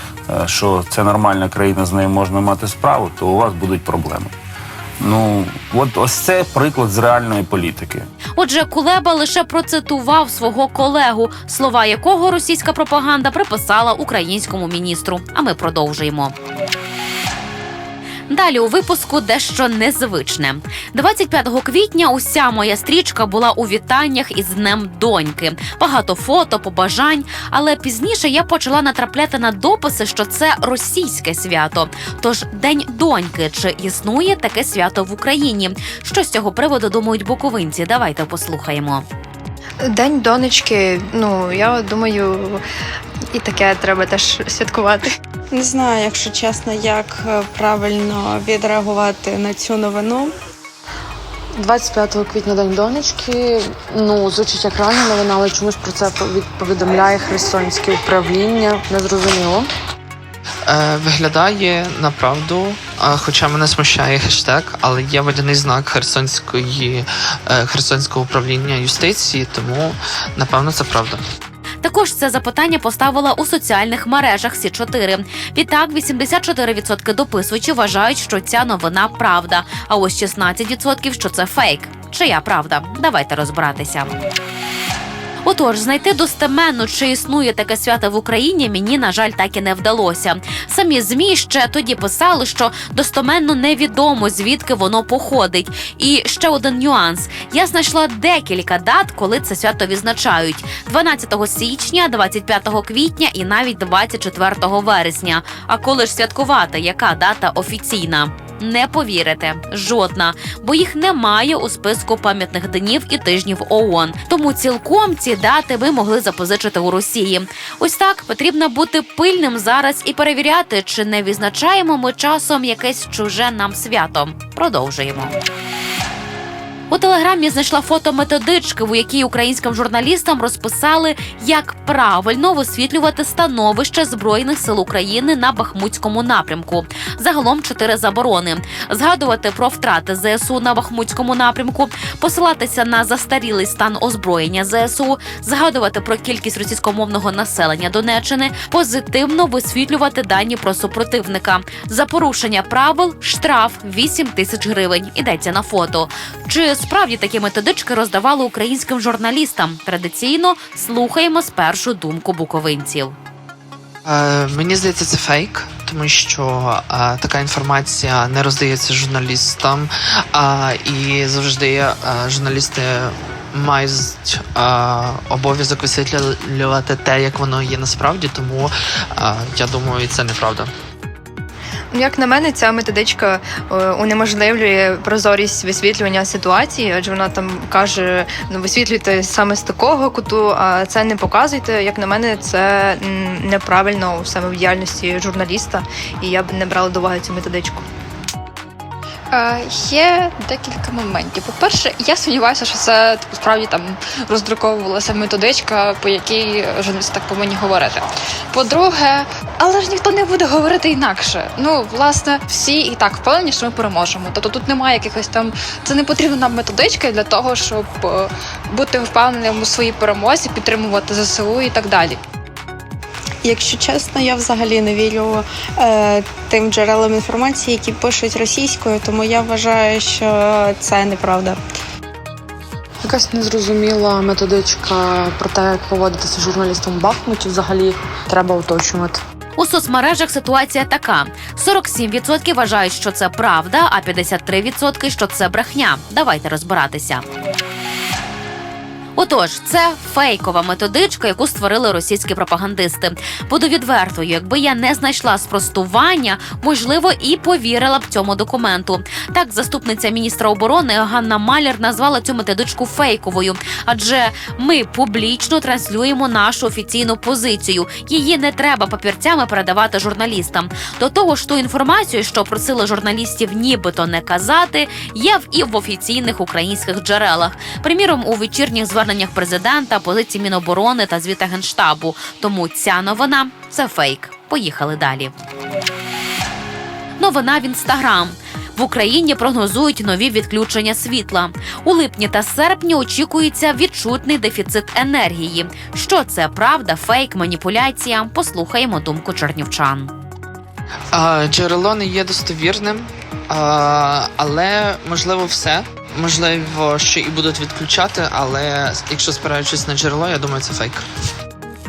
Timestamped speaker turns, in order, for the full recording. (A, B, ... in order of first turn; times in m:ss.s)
0:00.3-0:04.3 A
0:05.0-0:08.1 A
0:08.4-0:16.4 B
0:18.3-0:39.0 B
0:39.8-0:42.6 C
0:43.3-0:45.1 C
0:45.5-0:50.3 D
0:51.6-0:59.7 E
1:00.7-1:11.2 F
1:11.8-1:24.1 B
1:25.4-2:05.3 B
2:06.9-2:43.2 B
2:44.0-3:00.7 F
3:01.9-3:17.8 C
3:19.3-3:42.2 G
3:43.4-3:51.6 D
3:53.0-3:59.2 E
3:59.6-4:07.2 B
4:09.2-4:45.3 B
4:47.2-5:00.1 B
5:01.1-5:11.0 F